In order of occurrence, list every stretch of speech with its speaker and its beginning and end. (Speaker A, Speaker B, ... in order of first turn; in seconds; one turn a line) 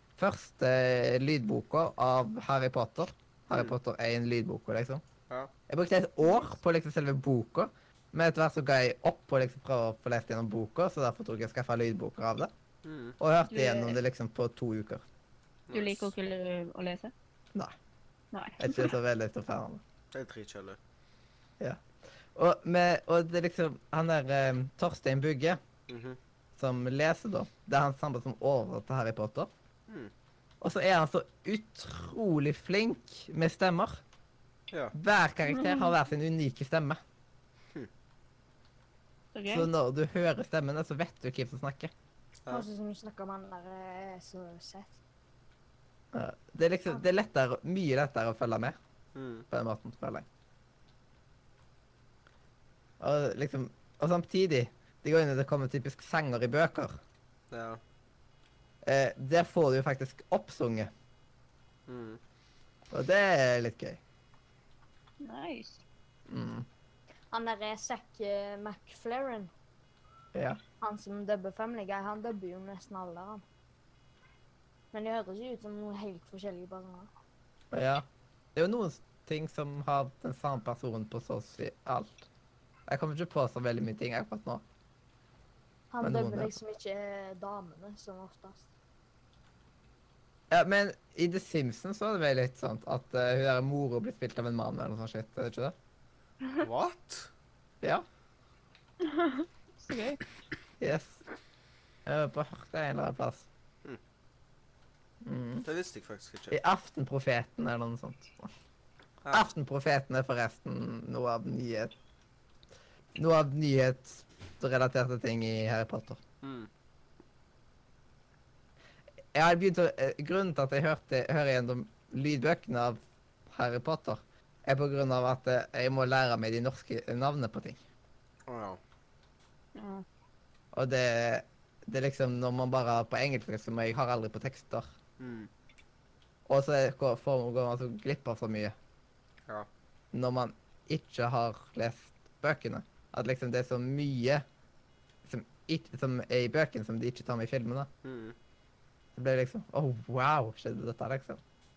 Speaker A: 0.2-5.0
Speaker A: 5.7-12.5
Speaker B: 12.8-13.2
Speaker A: 13.2-15.1
Speaker C: 13.5-14.0
Speaker B: 15.7-16.1
Speaker C: 15.7-17.1
Speaker C: 18.3-18.9
Speaker A: 18.6-19.8
Speaker B: 20.1-20.8
Speaker A: 22.4-25.6
Speaker B: 25.9-26.2
Speaker A: 26.6-29.5
Speaker A: 30.6-34.0
Speaker A: 35.0-37.0
Speaker C: 35.5-35.9
Speaker C: 39.3-39.7
Speaker A: 39.5-41.9
Speaker D: 42.5-45.0
Speaker A: 46.1-48.8
Speaker B: 49.1-49.5
Speaker A: 49.5-50.3
Speaker A: 53.0-57.0
Speaker B: 57.5-57.8
Speaker A: 58.9-60.9
Speaker B: 61.9-62.2
Speaker A: 62.9-64.0
Speaker C: 65.2-65.8
Speaker A: 66.3-66.7
Speaker D: 67.3-69.5
Speaker A: 70.3-70.6
Speaker D: 70.8-73.4
Speaker D: 74.9-77.1
Speaker A: 77.7-82.3
Speaker A: 82.9-84.6
Speaker D: 85.9-88.7
Speaker A: 86.0-86.5
Speaker A: 90.5-95.8
Speaker B: 96.6-97.3
Speaker C: 99.0-100.2
Speaker A: 100.8-101.2
Speaker A: 102.1-103.5
Speaker A: 105.2-105.7
Speaker B: 105.6-106.6
Speaker A: 106.5-108.5
Speaker A: 109.3-111.9
Speaker A: 113.2-116.2
Speaker B: 116.4-116.7
Speaker A: 119.3-127.8
Speaker B: 128.5-128.8
Speaker C: 129.8-130.1
Speaker A: 130.7-134.9
Speaker B: 135.2-135.5
Speaker A: 136.5-138.8
Speaker A: 140.1-144.4
Speaker A: 145.3-147.9
Speaker B: 148.0-148.3
Speaker A: 149.2-151.4